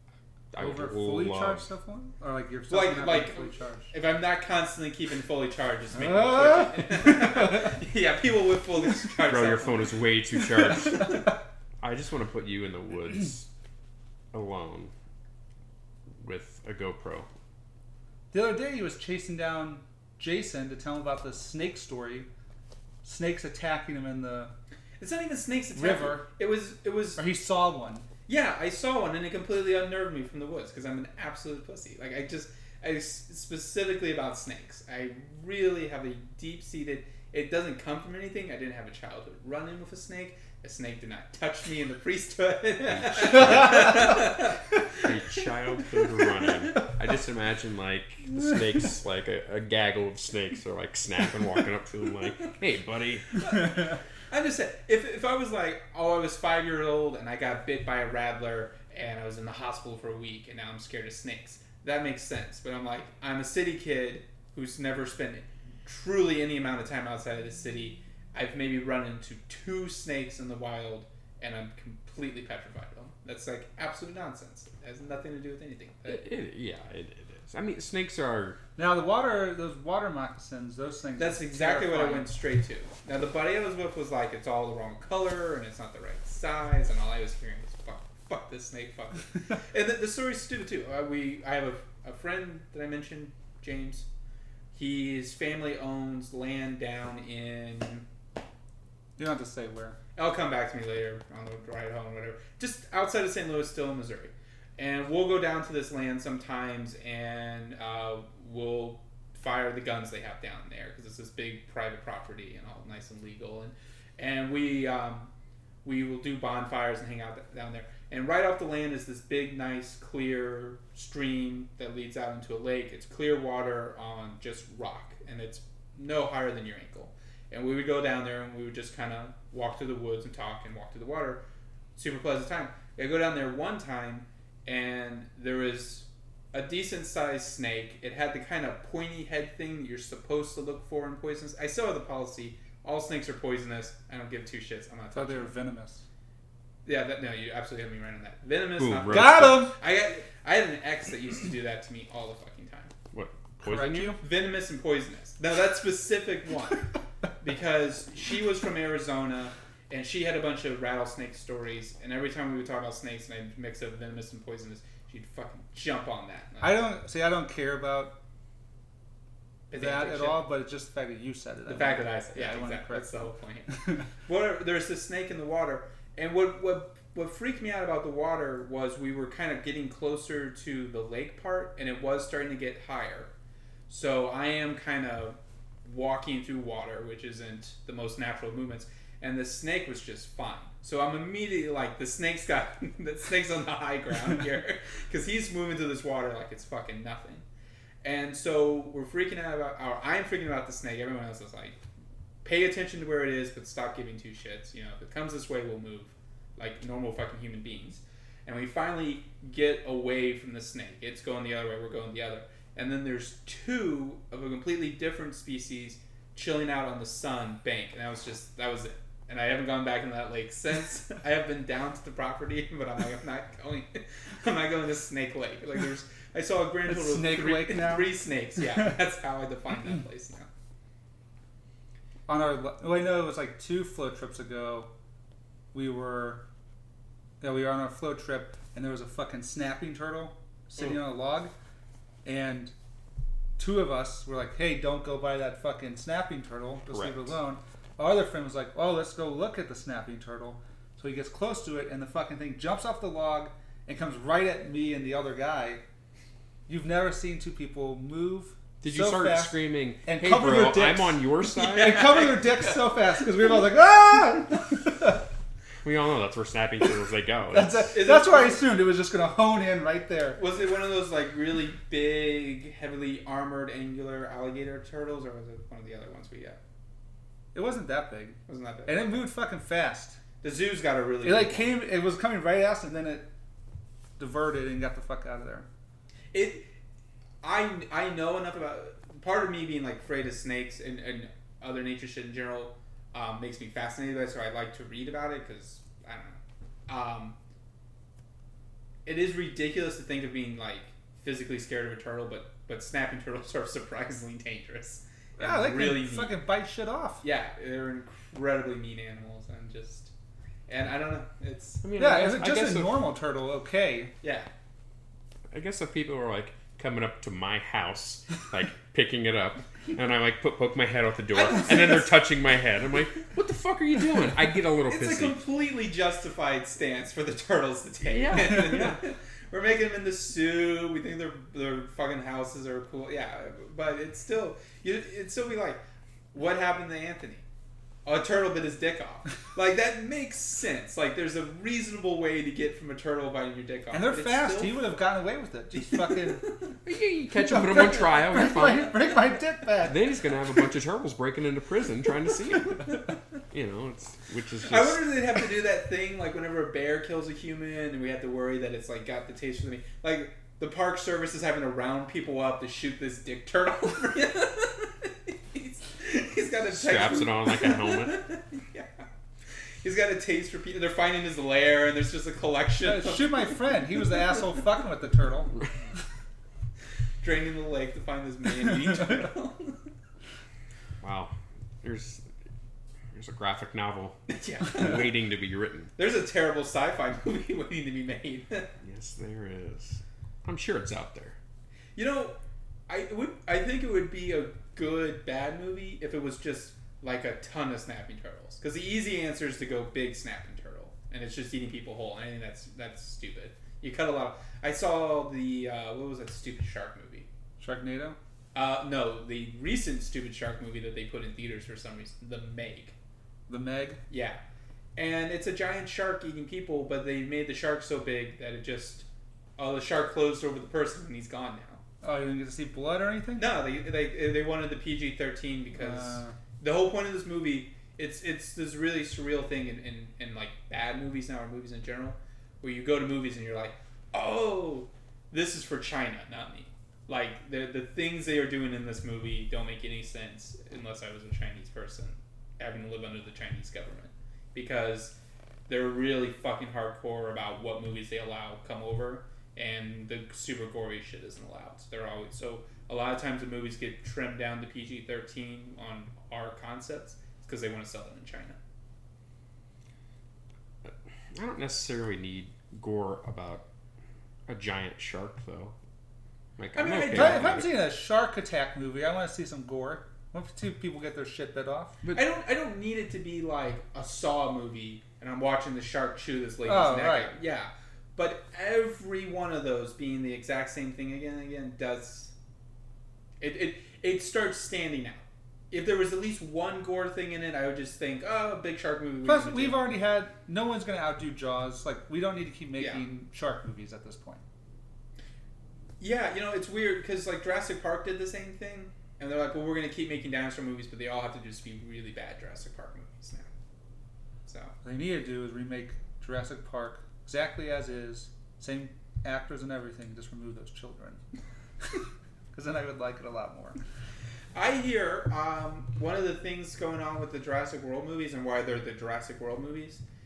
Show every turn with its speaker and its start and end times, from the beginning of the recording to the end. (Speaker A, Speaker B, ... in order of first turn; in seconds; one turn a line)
Speaker A: 0.5-1.6
Speaker B: 0.6-3.9
Speaker C: 2.7-10.0
Speaker B: 5.9-7.7
Speaker A: 9.2-11.3
Speaker C: 10.8-11.3
Speaker A: 11.8-13.5
Speaker A: 14.3-14.9
Speaker A: 16.2-17.3
Speaker B: 18.3-22.3
Speaker B: 23.0-24.5
Speaker C: 25.0-27.2
Speaker B: 25.7-26.3
Speaker B: 27.2-28.1
Speaker C: 28.3-45.4
Speaker A: 42.9-53.7
Speaker C: 53.5-76.2
Speaker A: 76.0-78.6
Speaker B: 78.8-82.3
Speaker C: 81.2-94.1
Speaker C: 94.7-98.0
Speaker B: 99.2-100.0
Speaker C: 100.2-115.3
Speaker C: 115.8-131.4
Speaker C: 131.9-145.5
Speaker B: 145.1-146.0
Speaker C: 146.8-152.9
Speaker A: 148.8-149.7
Speaker B: 149.1-149.7
Speaker A: 153.1-154.2
Speaker B: 153.6-154.2
Speaker C: 154.2-156.9
Speaker C: 157.4-166.8
Speaker B: 166.6-168.1
Speaker C: 169.7-170.4
Speaker B: 169.7-174.0
Speaker C: 171.7-183.3
Speaker C: 183.9-197.4
Speaker C: 198.0-201.8
Speaker C: 202.4-230.5
Speaker B: 226.8-228.1
Speaker B: 232.3-234.9
Speaker B: 235.7-236.4
Speaker B: 237.4-241.5
Speaker B: 242.2-242.7
Speaker B: 243.6-255.8
Speaker A: 246.9-247.3
Speaker B: 256.7-265.2
Speaker A: 258.8-262.2
Speaker C: 261.6-262.7
Speaker A: 265.8-267.9
Speaker B: 267.5-270.4
Speaker C: 267.9-268.6
Speaker C: 270.4-276.6
Speaker B: 277.5-280.2
Speaker C: 278.5-279.1
Speaker C: 280.4-281.8
Speaker B: 281.2-283.3
Speaker B: 284.2-285.7
Speaker C: 286.3-286.7
Speaker C: 287.4-297.4
Speaker C: 299.1-306.4
Speaker B: 305.4-307.2
Speaker C: 307.2-310.1
Speaker C: 310.7-311.8
Speaker A: 311.8-313.0
Speaker B: 311.9-314.1
Speaker C: 314.2-314.5
Speaker A: 315.5-325.4
Speaker C: 321.3-322.1
Speaker C: 324.9-335.8
Speaker A: 328.0-329.0
Speaker C: 336.3-337.4
Speaker C: 338.0-345.0
Speaker B: 343.9-346.4
Speaker C: 345.7-346.7
Speaker A: 346.8-349.0
Speaker B: 347.4-350.0
Speaker A: 349.8-355.1
Speaker C: 354.6-369.0
Speaker A: 366.7-368.2
Speaker C: 369.8-374.0
Speaker B: 372.8-375.5
Speaker C: 377.2-379.8
Speaker A: 381.0-382.3
Speaker A: 383.1-385.9
Speaker C: 384.3-385.2
Speaker C: 386.0-388.7
Speaker A: 388.8-391.4
Speaker C: 391.9-392.4
Speaker C: 392.9-407.3
Speaker B: 407.6-408.2
Speaker C: 408.5-412.9
Speaker B: 413.5-414.0
Speaker C: 414.1-414.4
Speaker C: 414.9-419.1
Speaker C: 419.6-421.8
Speaker B: 422.0-423.4
Speaker C: 423.4-445.1
Speaker B: 425.8-426.4
Speaker C: 445.7-458.6
Speaker A: 460.8-463.6
Speaker A: 464.5-465.7
Speaker A: 466.6-467.7
Speaker C: 466.7-467.7
Speaker B: 467.1-472.0
Speaker C: 472.1-482.3
Speaker B: 476.6-477.3
Speaker C: 483.4-489.8
Speaker B: 489.2-494.4
Speaker C: 492.8-493.0
Speaker C: 496.0-503.5
Speaker C: 504.4-504.7
Speaker B: 504.8-511.2
Speaker B: 512.5-513.8
Speaker C: 514.5-520.0